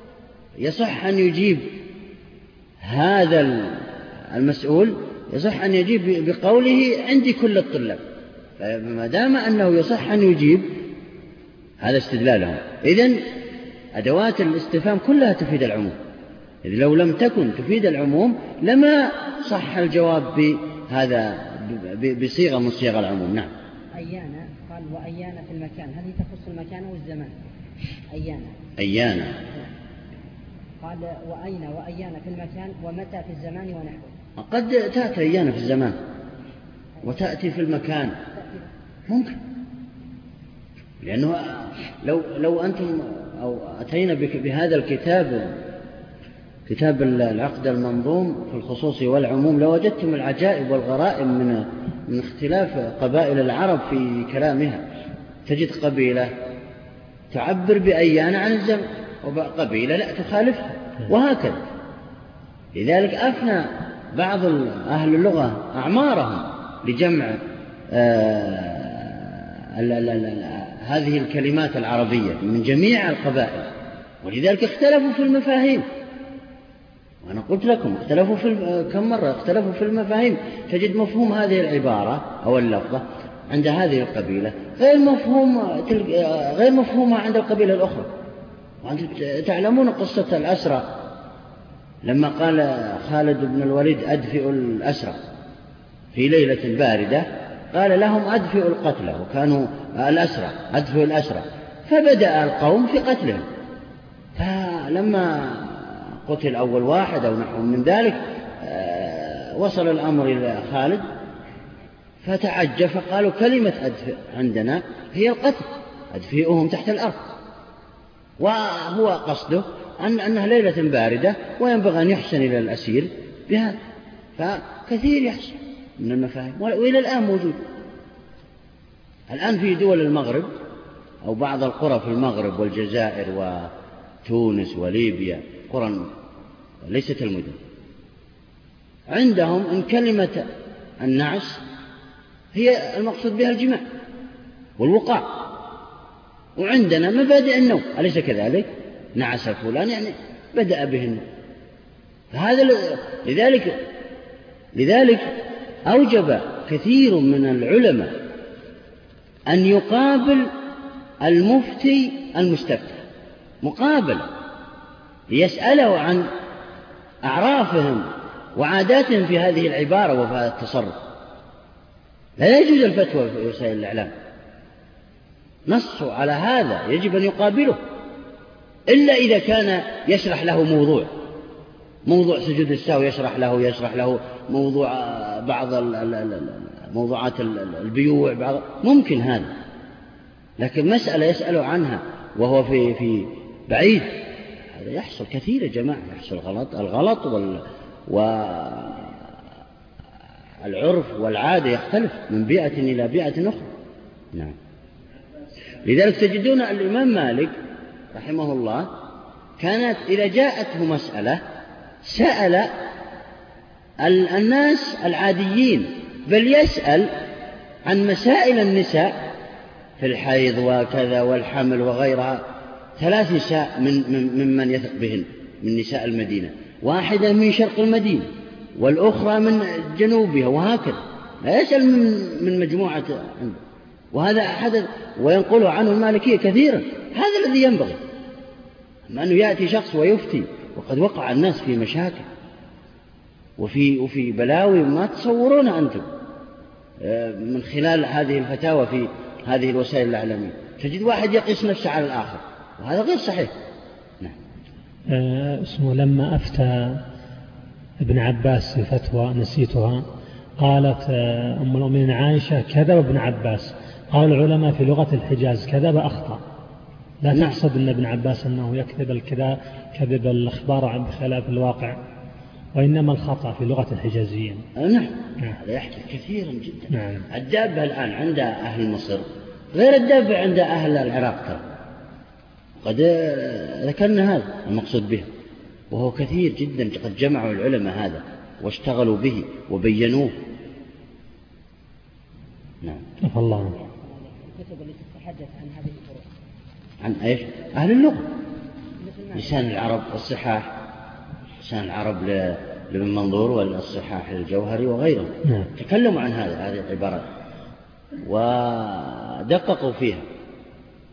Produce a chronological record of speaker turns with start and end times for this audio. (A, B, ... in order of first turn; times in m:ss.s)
0:00.6-0:01.8 A
0:02.8-0:08.0 A
0:08.6-0:10.8 A
0:11.8-0:13.2 A
0:14.0-0:16.0 A
0:16.6-0:23.5 A
0:23.9-0:27.3 B
0:28.1-0:28.6 B
0:28.8-0:29.4 A
0:30.8-0:34.1 B
0:34.4-0:36.0 A
0:37.0-0:38.2 A
0:38.4-0:38.6 B
0:39.1-0:39.4 A
0:41.0-0:45.6 A
0:46.7-0:54.8 A
0:55.5-0:56.3 A
0:57.3-1:01.6 A
1:02.7-1:15.9 A
1:17.2-1:28.1 A
1:28.8-1:30.9 A
1:32.0-1:35.2 A
1:36.1-1:43.5 A
1:44.4-1:51.0 A
1:52.2-1:57.2 A
1:58.4-2:03.8 A
2:04.4-2:07.6 A
2:09.3-2:10.5 A
2:11.2-2:13.7 A
2:14.2-2:16.1 A
2:16.8-2:17.6 A
2:19.1-2:20.5 A
2:21.0-2:21.6 A
2:22.5-2:23.8 A
2:24.8-2:25.3 A
2:26.6-2:31.2 A
2:32.3-2:33.8 A
2:34.8-2:35.3 A
2:35.9-2:38.1 A
2:39.5-2:40.5 A
2:41.2-2:43.0 A
2:43.6-2:44.3 A
2:45.3-2:46.2 A
2:47.2-2:51.0 A
2:52.4-2:54.1 A
2:55.7-2:57.8 A
2:58.9-3:01.1 A
3:02.1-3:09.5 A
3:10.6-3:14.2 A
3:14.7-3:19.3 A
3:20.6-3:23.7 A
3:25.8-3:27.6 A
3:28.1-3:28.9 A
3:29.6-3:31.4 A
3:32.0-3:32.7 A
3:34.0-3:37.1 A
3:37.9-3:39.3 A
3:40.0-3:42.4 A
3:43.0-3:53.6 A
3:54.1-3:58.0 A
3:59.1-4:02.3 A
4:03.6-4:06.1 A
4:07.0-4:13.5 A
4:15.1-4:17.0 C
4:18.0-4:20.0 C
4:20.6-4:26.4 C
4:27.2-4:32.0 C
4:27.3-4:27.6 A
4:32.7-4:34.7 C
4:34.8-4:41.6 A
4:36.9-4:37.3 C
4:42.8-4:45.3 A
4:45.9-4:50.4 A
4:53.2-4:53.7 C
4:53.5-4:56.3 B
4:57.0-4:58.3 A
4:59.0-4:59.6 B
4:59.3-5:00.7 A
5:01.6-5:07.2 A
5:08.2-5:10.3 A